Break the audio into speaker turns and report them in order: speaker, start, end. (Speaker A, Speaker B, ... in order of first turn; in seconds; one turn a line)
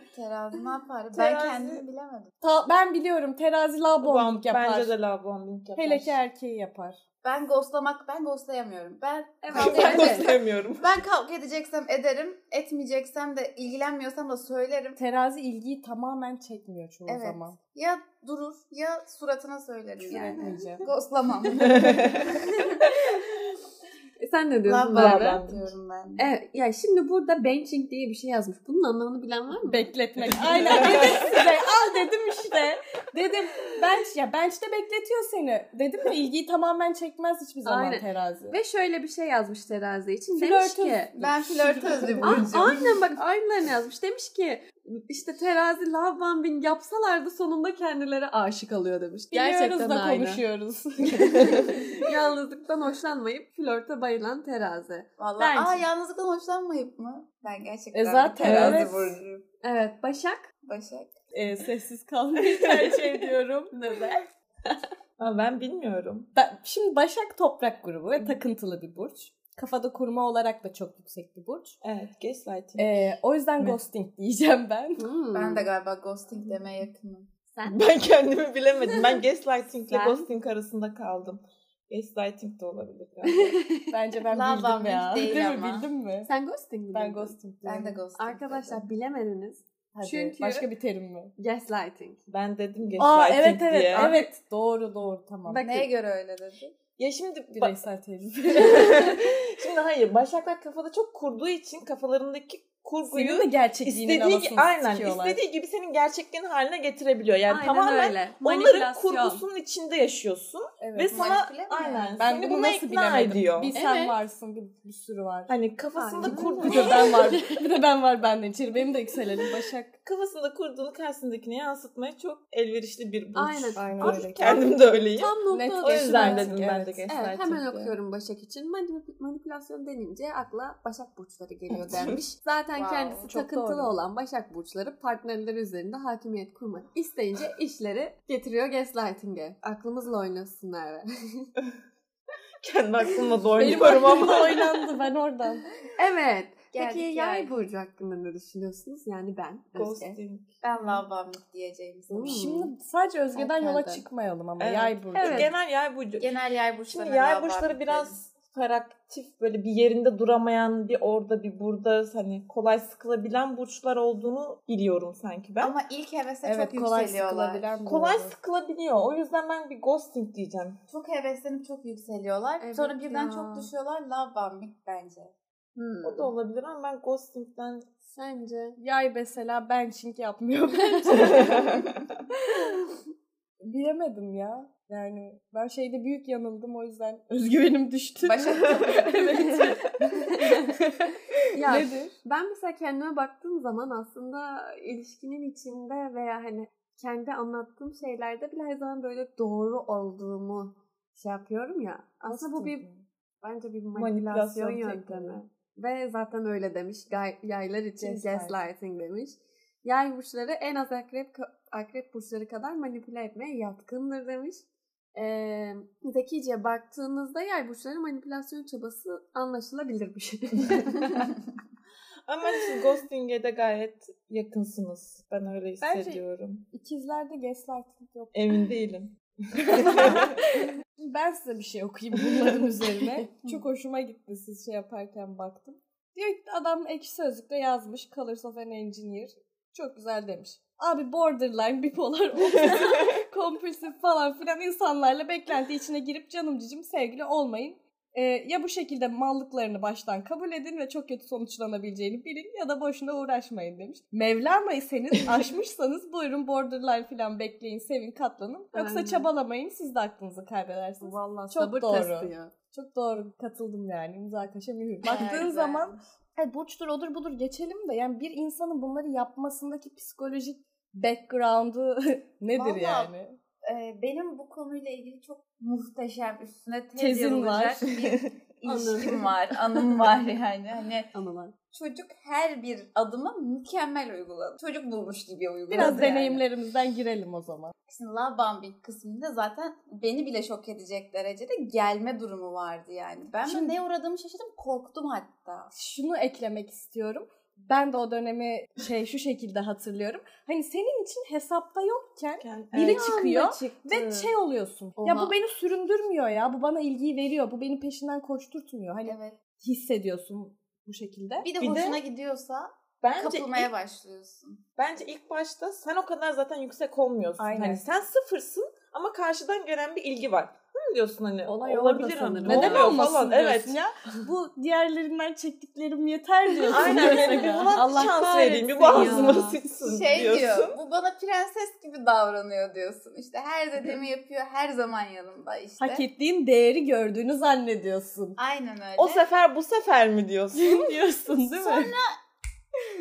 Speaker A: 0.1-2.3
Speaker B: 1.1-1.9
Speaker C: 2.4-4.9
Speaker B: 4.0-6.2
Speaker C: 5.8-7.0
Speaker A: 7.2-15.0
Speaker D: 9.4-10.3
Speaker B: 9.5-11.0
Speaker C: 15.0-17.6
Speaker A: 17.1-22.9
Speaker C: 20.0-20.8
Speaker B: 21.6-22.3
Speaker D: 24.2-25.4
Speaker B: 24.7-25.7
Speaker A: 24.9-26.3
Speaker D: 26.2-29.9
Speaker C: 29.6-38.6
Speaker B: 30.2-31.4
Speaker D: 30.8-31.2
Speaker D: 37.6-41.2
Speaker C: 40.4-42.8
Speaker A: 41.1-42.9
Speaker D: 42.2-50.4
Speaker C: 49.3-52.1
Speaker B: 51.3-51.6
Speaker D: 51.4-55.8
Speaker A: 55.2-59.4
Speaker C: 57.9-59.2
Speaker B: 58.4-58.8
Speaker D: 58.5-58.8
Speaker D: 59.6-60.5
Speaker A: 60.6-61.1
Speaker C: 61.3-63.9
Speaker B: 62.6-63.0
Speaker D: 63.7-64.8
Speaker B: 65.2-66.3
Speaker C: 66.3-71.8
Speaker B: 71.8-73.0
Speaker C: 72.8-75.1
Speaker D: 75.0-75.7
Speaker A: 75.3-77.3
Speaker D: 77.5-77.9
Speaker B: 77.7-83.6
Speaker D: 79.9-80.3
Speaker D: 83.2-83.9
Speaker C: 83.9-86.3
Speaker A: 84.3-85.9
Speaker D: 86.3-87.4
Speaker C: 86.9-88.0
Speaker A: 87.6-88.8
Speaker D: 88.2-90.7
Speaker C: 90.0-91.3
Speaker D: 91.4-92.2
Speaker B: 92.3-94.2
Speaker C: 93.0-95.8
Speaker D: 93.9-94.2
Speaker D: 95.5-95.9
Speaker A: 95.6-96.8
Speaker B: 97.0-97.8
Speaker C: 97.6-99.2
Speaker B: 98.5-113.8
Speaker C: 103.1-105.4
Speaker D: 107.5-109.4
Speaker C: 110.8-111.4
Speaker A: 111.1-112.1
Speaker C: 112.2-115.5
Speaker D: 113.8-114.2
Speaker B: 115.5-117.2
Speaker D: 116.0-117.6
Speaker C: 116.2-120.0
Speaker B: 120.0-128.0
Speaker D: 123.3-126.6
Speaker C: 123.8-124.6
Speaker C: 125.5-127.0
Speaker D: 127.1-141.5
Speaker B: 131.7-132.2
Speaker A: 132.8-133.3
Speaker C: 133.3-133.9
Speaker B: 142.6-144.6
Speaker C: 143.6-145.7
Speaker D: 146.0-150.2
Speaker A: 146.7-147.5
Speaker B: 149.8-151.0
Speaker A: 150.6-152.5
Speaker D: 152.1-152.7
Speaker C: 152.3-155.5
Speaker D: 153.3-154.0
Speaker B: 154.6-156.3
Speaker D: 155.1-155.5
Speaker A: 156.2-158.2
Speaker B: 156.9-165.8
Speaker A: 165.6-167.8
Speaker C: 166.4-168.3
Speaker B: 167.8-170.8
Speaker A: 170.9-175.3
Speaker D: 172.6-173.7
Speaker D: 175.8-176.3
Speaker B: 176.0-177.9
Speaker D: 178.1-178.8
Speaker C: 178.8-181.9
Speaker B: 181.4-181.8
Speaker C: 183.6-192.1
Speaker A: 188.2-189.6
Speaker D: 189.3-189.8
Speaker D: 190.3-190.8
Speaker D: 191.5-202.8
Speaker C: 202.3-203.1
Speaker D: 203.4-221.3
Speaker B: 203.9-205.4
Speaker C: 208.0-208.6
Speaker B: 222.3-226.7
Speaker C: 225.8-228.4
Speaker B: 228.3-230.4
Speaker C: 229.6-273.4
Speaker D: 233.0-233.3
Speaker D: 258.7-259.3
Speaker D: 261.0-262.5
Speaker A: 265.0-266.0
Speaker A: 272.6-273.1
Speaker A: 273.6-281.1
Speaker C: 277.0-277.8
Speaker B: 278.0-278.3
Speaker D: 278.6-279.3
Speaker D: 281.1-281.6
Speaker A: 281.7-286.4
Speaker C: 285.7-287.7
Speaker A: 287.9-295.7
Speaker C: 293.5-293.8
Speaker C: 295.7-311.5
Speaker B: 302.4-303.1
Speaker D: 302.8-304.3
Speaker D: 305.0-305.3
Speaker A: 309.1-309.4
Speaker A: 311.4-314.6
Speaker B: 311.6-312.0
Speaker B: 313.0-313.7
Speaker B: 314.8-323.8
Speaker C: 317.4-317.8
Speaker D: 321.5-323.0
Speaker C: 322.4-327.8
Speaker D: 326.7-329.6
Speaker B: 326.7-330.8
Speaker C: 328.9-329.4
Speaker A: 329.8-336.1
Speaker C: 335.8-338.4
Speaker A: 338.4-339.2
Speaker B: 339.0-340.9
Speaker C: 340.5-341.9
Speaker A: 341.5-342.2